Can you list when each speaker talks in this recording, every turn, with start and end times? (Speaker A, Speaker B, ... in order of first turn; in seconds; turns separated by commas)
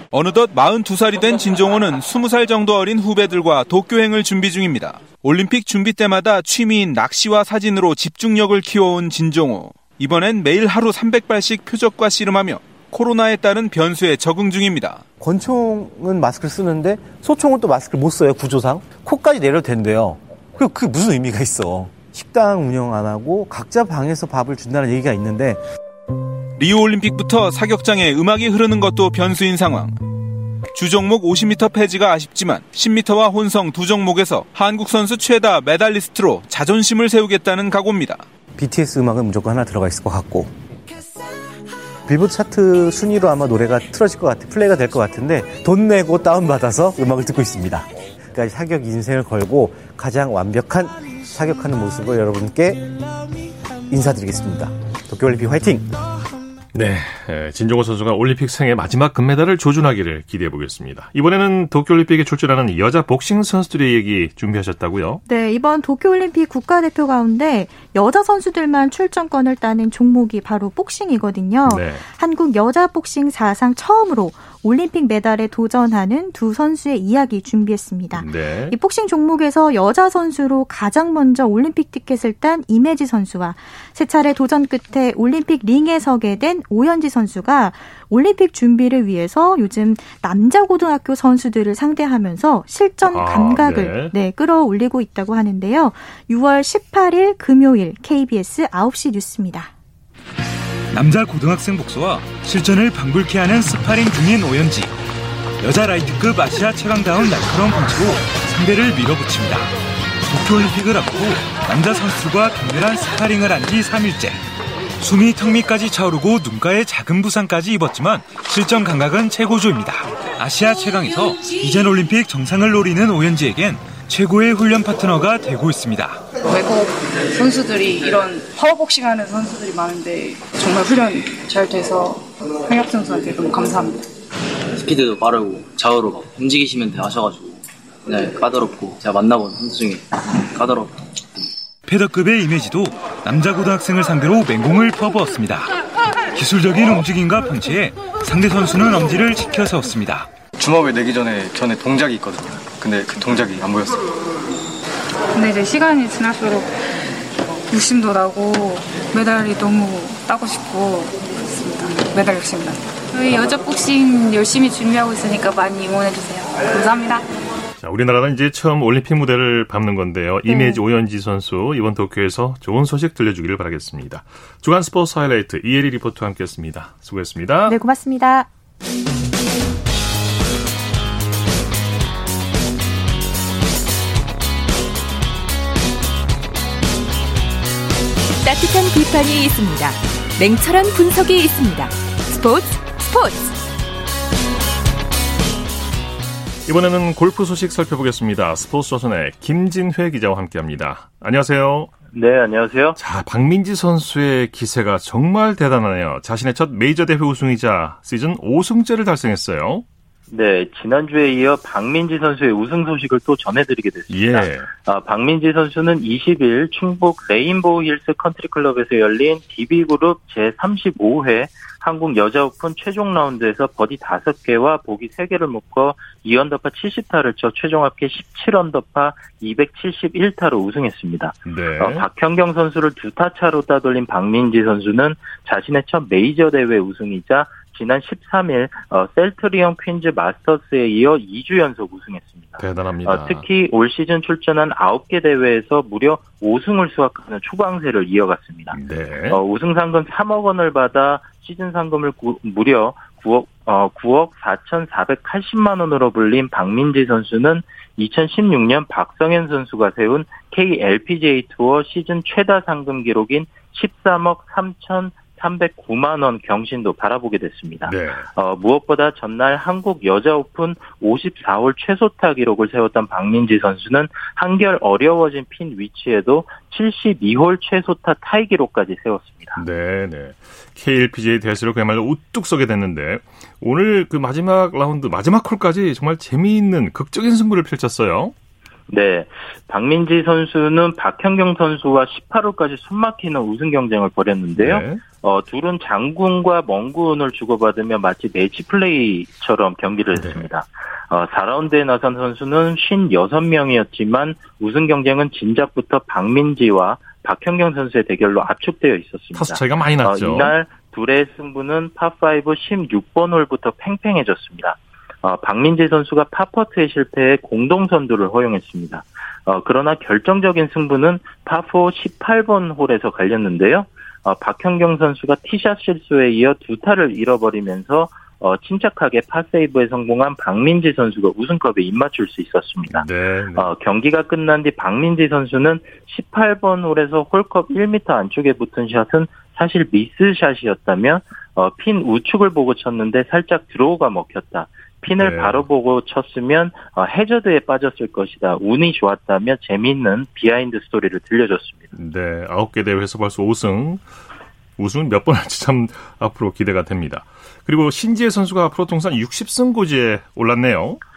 Speaker A: 0.1-15.1, Speaker B: 15.2-25.6, Speaker A: 26.6-30.0, Speaker A: 30.7-38.2, Speaker B: 38.5-40.5, Speaker B: 42.1-52.9, Speaker B: 53.9-56.0, Speaker C: 56.7-65.2, Speaker D: 65.3-99.7, Speaker C: 71.7-72.0, Speaker C: 78.1-78.8, Speaker C: 93.1-94.1, Speaker E: 100.9-104.9, Speaker E: 105.6-109.7, Speaker E: 110.2-114.4, Speaker E: 115.0-126.3, Speaker F: 126.4-134.1, Speaker G: 134.8-141.0, Speaker E: 141.8-145.7, Speaker E: 146.3-150.3, Speaker H: 150.6-154.1, Speaker F: 155.3-156.8, Speaker F: 157.7-167.3, Speaker C: 167.8-177.8, Speaker D: 170.5-170.8, Speaker D: 177.7-178.5, Speaker I: 188.4-193.5, Speaker C: 196.7-201.9, Speaker J: 202.1-203.0, Speaker C: 203.0-209.8, Speaker J: 210.3-248.8, Speaker C: 214.1-214.7, Speaker C: 231.5-232.1, Speaker C: 242.6-243.4, Speaker C: 248.7-249.4, Speaker J: 249.3-279.6, Speaker C: 267.9-268.3, Speaker C: 279.6-288.3, Speaker J: 288.9-351.9, Speaker C: 294.6-295.0, Speaker C: 300.1-300.5, Speaker C: 309.4-310.6, Speaker C: 332.9-333.7, Speaker C: 345.2-345.6, Speaker C: 351.9-354.0, Speaker C: 354.8-361.0